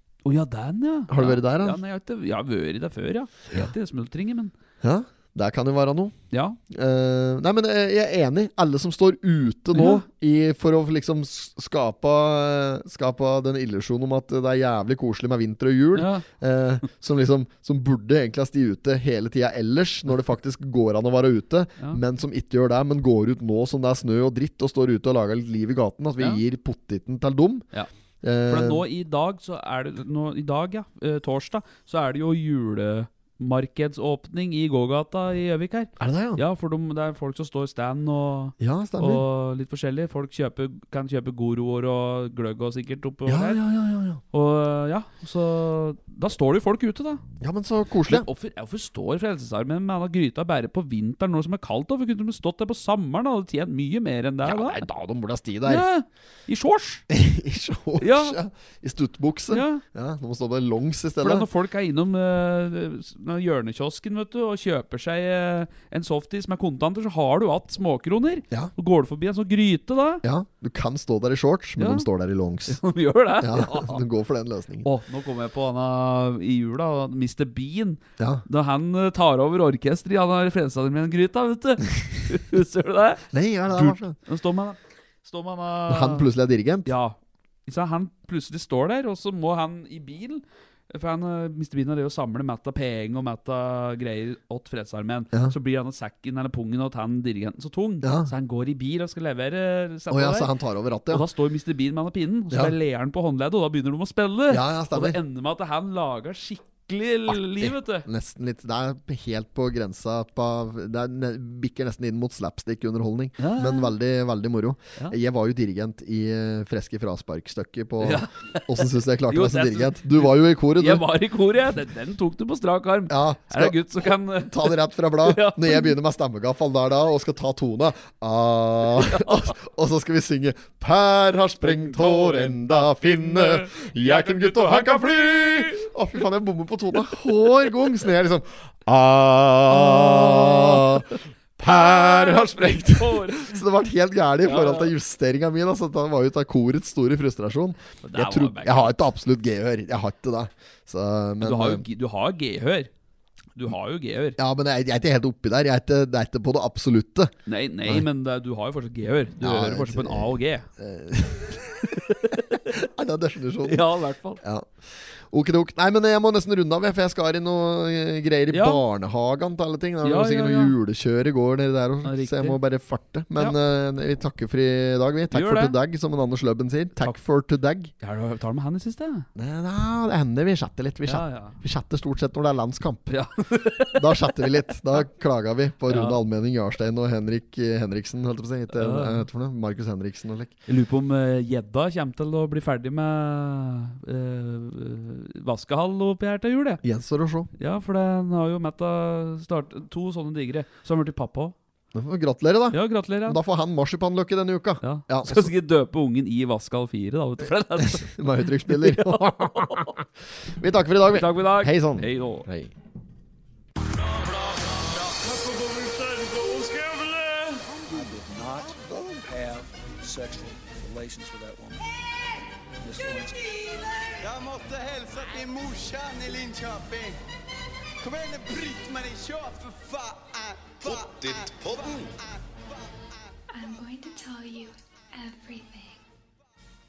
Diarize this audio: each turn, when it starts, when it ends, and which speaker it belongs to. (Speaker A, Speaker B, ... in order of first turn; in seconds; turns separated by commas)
Speaker A: 0.2-4.5, Speaker B: 1.1-1.8, Speaker B: 4.8-6.1, Speaker A: 6.3-6.6, Speaker B: 6.7-27.6, Speaker A: 9.7-10.0, Speaker A: 15.9-16.2, Speaker B: 28.2-28.8, Speaker A: 28.5-43.6, Speaker B: 36.0-36.4, Speaker B: 38.6-39.2, Speaker B: 43.2-44.2, Speaker A: 44.3-47.2, Speaker B: 47.4-48.3, Speaker A: 48.0-54.8, Speaker B: 54.4-55.9, Speaker A: 55.6-57.0, Speaker B: 57.1-61.5, Speaker A: 58.0-58.4, Speaker A: 59.5-59.8, Speaker A: 61.2-70.2, Speaker B: 70.2-72.8, Speaker A: 71.8-72.1, Speaker A: 72.7-74.0, Speaker B: 73.4-74.9, Speaker A: 74.8-86.3, Speaker B: 78.2-78.4, Speaker B: 83.3-84.2, Speaker B: 85.9-86.9, Speaker A: 86.8-100.5, Speaker B: 98.0-98.3, Speaker B: 100.1-101.2, Speaker A: 101.1-108.1, Speaker B: 104.5-105.2, Speaker B: 107.3-121.0, Speaker A: 113.4-113.9, Speaker A: 118.0-125.9, Speaker B: 123.1-151.8, Speaker A: 128.8-129.5, Speaker A: 131.6-135.9, Speaker A: 136.9-137.2, Speaker A: 139.7-143.6, Speaker A: 144.4-144.9, Speaker A: 148.0-149.0, Speaker A: 151.4-152.9, Speaker A: 153.5-154.4, Speaker B: 154.4-157.3, Speaker A: 157.4-160.7, Speaker B: 159.4-163.8, Speaker A: 161.9-162.6, Speaker A: 163.6-164.4, Speaker B: 164.4-177.9, Speaker A: 168.5-168.8, Speaker A: 170.0-170.8, Speaker A: 172.0-172.6, Speaker A: 175.3-175.7, Speaker A: 178.0-179.2, Speaker B: 179.3-183.1, Speaker A: 181.1-181.6, Speaker A: 183.1-184.5, Speaker B: 183.9-190.5, Speaker A: 185.9-186.2, Speaker A: 188.7-189.2, Speaker A: 190.7-196.8, Speaker B: 196.8-197.5, Speaker A: 197.6-201.6, Speaker B: 201.9-205.5, Speaker A: 202.7-203.4, Speaker A: 204.8-210.0, Speaker B: 207.8-212.7, Speaker A: 211.1-212.5, Speaker C: 213.8-221.9, Speaker C: 222.8-224.1, Speaker D: 224.2-227.2, Speaker D: 228.0-232.6, Speaker E: 233.5-236.0